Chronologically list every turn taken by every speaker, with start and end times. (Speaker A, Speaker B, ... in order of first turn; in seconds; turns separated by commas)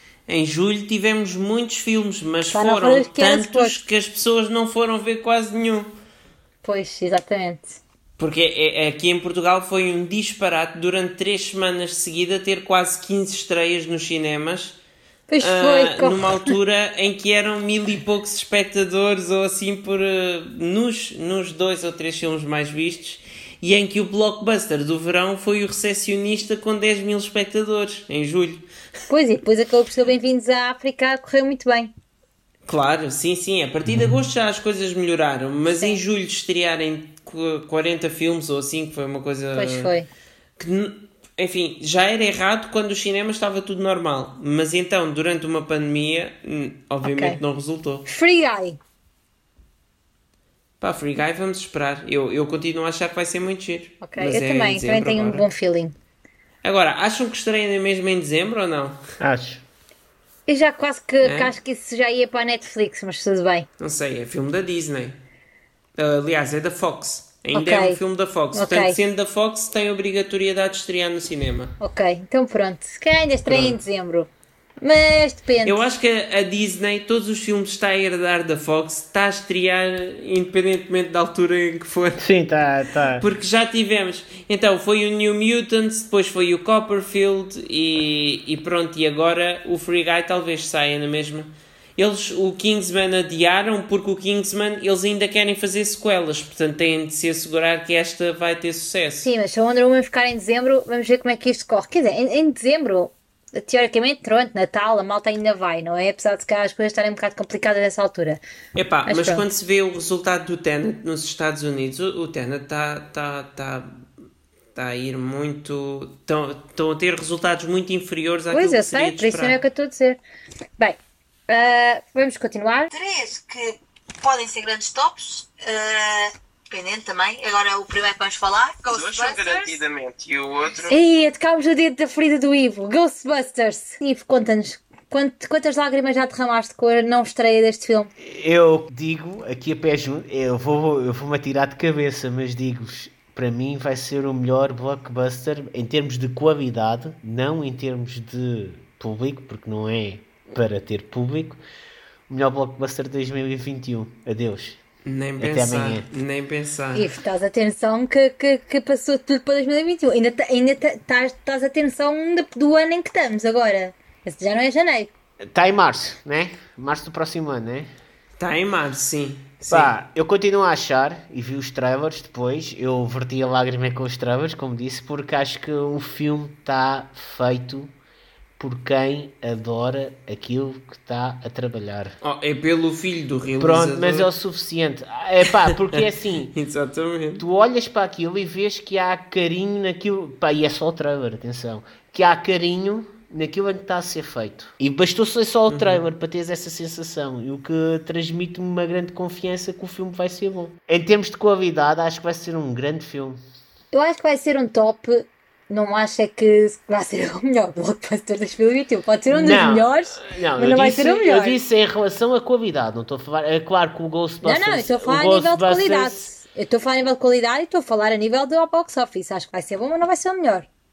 Speaker A: 0.3-5.9, Speaker B: 2.5-3.8, Speaker B: 6.6-7.8, Speaker A: 8.2-14.8, Speaker B: 15.3-16.5, Speaker A: 15.4-28.7, Speaker B: 29.1-31.9, Speaker A: 32.7-39.9, Speaker C: 33.9-34.1, Speaker B: 35.7-36.0, Speaker B: 39.5-40.1, Speaker A: 40.6-48.1, Speaker B: 47.0-47.4, Speaker B: 48.1-48.8, Speaker A: 50.8-55.5, Speaker B: 54.0-55.9, Speaker A: 56.6-59.0, Speaker C: 59.2-59.6, Speaker B: 60.5-63.7, Speaker A: 61.2-61.5, Speaker A: 63.8-65.2, Speaker A: 66.0-71.7, Speaker B: 67.5-68.0, Speaker B: 68.5-69.0, Speaker B: 71.8-75.9, Speaker A: 73.5-73.7, Speaker A: 75.6-82.3, Speaker C: 82.2-83.3, Speaker A: 83.2-99.3, Speaker B: 99.2-108.4, Speaker A: 108.7-114.0, Speaker B: 109.0-109.4, Speaker A: 114.7-119.6, Speaker B: 118.5-120.2, Speaker B: 120.8-122.9, Speaker D: 122.9-129.8, Speaker E: 128.9-131.0, Speaker B: 130.9-138.1, Speaker C: 138.2-151.6, Speaker C: 152.3-154.8, Speaker A: 155.0-157.1, Speaker C: 155.4-156.1, Speaker B: 156.9-165.1, Speaker C: 165.4-167.9, Speaker A: 168.4-169.9, Speaker C: 169.7-177.9, Speaker C: 178.6-182.2, Speaker A: 182.2-184.3, Speaker C: 183.6-186.5, Speaker A: 185.5-187.4, Speaker C: 187.4-203.4, Speaker A: 195.7-196.0, Speaker B: 203.9-211.6, Speaker C: 209.3-216.3, Speaker B: 214.4-220.7